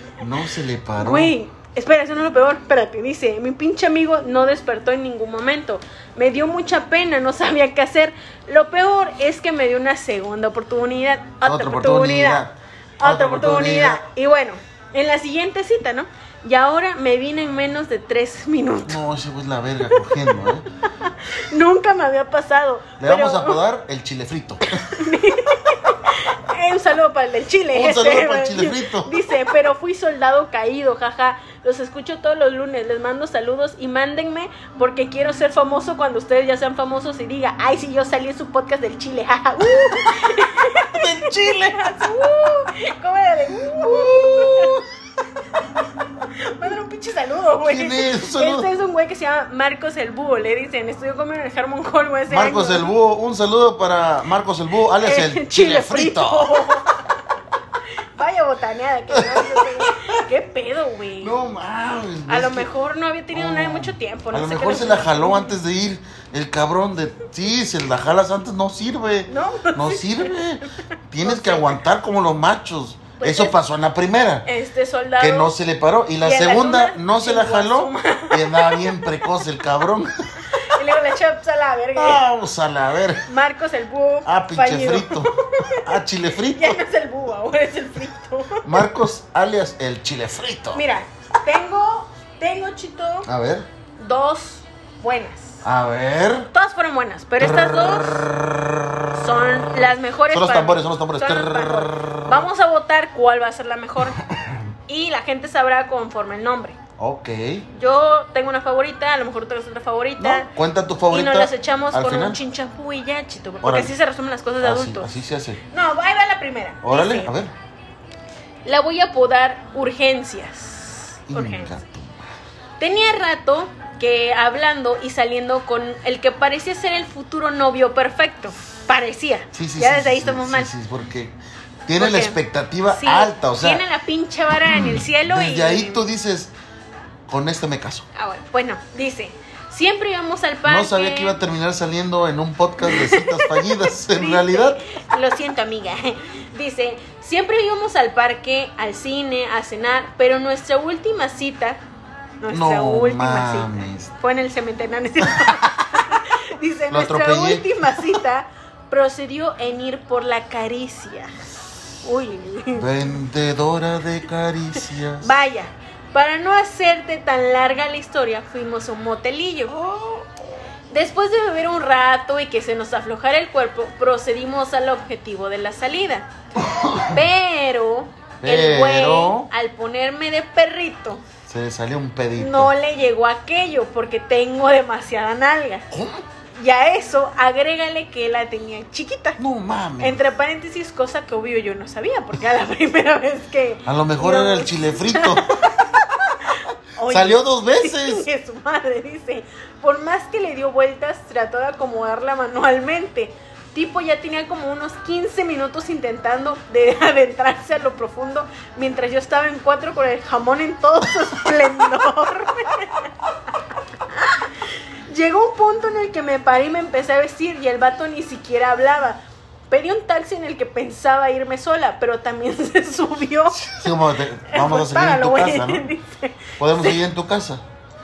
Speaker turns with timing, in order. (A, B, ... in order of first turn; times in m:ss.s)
0:00.2-0:01.4 A
0:01.0-0:12.4 B
0:11.4-0:14.0 A
0:13.0-0:19.0 B
0:18.9-0:20.7 A
0:21.0-0:23.6 B
0:23.0-0:24.8 A
0:24.8-0:44.8 B
0:27.7-0:29.1 A
0:40.9-0:41.8 A
0:43.7-0:44.8 A
0:46.4-0:52.9 B
0:47.7-0:48.7 A
0:52.3-0:56.6 A
0:55.0-0:57.0 B
0:58.2-1:01.4 B
0:59.1-1:00.1 A
1:01.2-1:02.7 A
1:02.3-1:05.6 B
1:03.3-1:14.5 A
1:09.3-1:10.3 B
1:11.2-1:11.8 B
1:13.2-1:13.6 B
1:14.5-1:15.5 B
1:15.2-1:20.1 A
1:16.2-1:19.2 B
1:20.5-1:22.2 B
1:22.0-1:23.2 A
1:23.3-1:25.9 B
1:24.3-1:26.8 A
1:26.5-1:28.7 B
1:28.6-1:30.8 A
1:30.7-1:33.3 B
1:33.2-1:33.7 A
1:34.0-1:35.6 B
1:35.6-1:36.5 A
1:36.5-1:38.3 B
1:37.4-1:37.9 A
1:39.1-1:44.2 B
1:40.3-1:42.4 A
1:44.0-1:44.7 A
1:44.9-1:46.8 B
1:47.0-1:47.7 A
1:47.7-1:50.5 B
1:50.2-1:52.4 A
1:51.1-1:55.1 B
1:53.6-1:54.0 A
1:54.6-1:55.6 A
1:55.7-1:57.3 B
1:56.8-1:57.5 A
1:58.6-2:01.8 B
2:01.3-2:02.3 A
2:02.8-2:10.7 B
2:09.5-2:13.8 A
2:12.0-2:12.4 B
2:12.9-2:16.1 B
2:14.6-2:16.5 A
2:17.3-2:18.1 A
2:18.2-2:21.4 B
2:20.7-2:24.8 A
2:22.8-2:31.8 B
2:32.4-2:41.3 B
2:32.5-2:34.1 A
2:35.3-2:35.7 A
2:36.9-2:38.0 A
2:42.0-2:42.9 B
2:42.7-2:45.3 A
2:45.2-2:49.8 B
2:49.7-2:50.3 A
2:50.9-2:56.3 B
2:56.6-2:57.2 A
2:57.0-3:01.2 B
2:58.4-2:59.5 A
3:01.5-3:02.7 A
3:02.4-3:05.9 B
3:05.9-3:06.2 A
3:06.6-3:09.4 B
3:09.4-3:10.2 A
3:10.0-3:33.1 B
3:13.9-3:15.5 A
3:17.1-3:18.3 A
3:34.1-3:43.8 B
3:43.5-3:45.9 A
3:44.5-3:47.0 B
3:46.6-3:47.6 A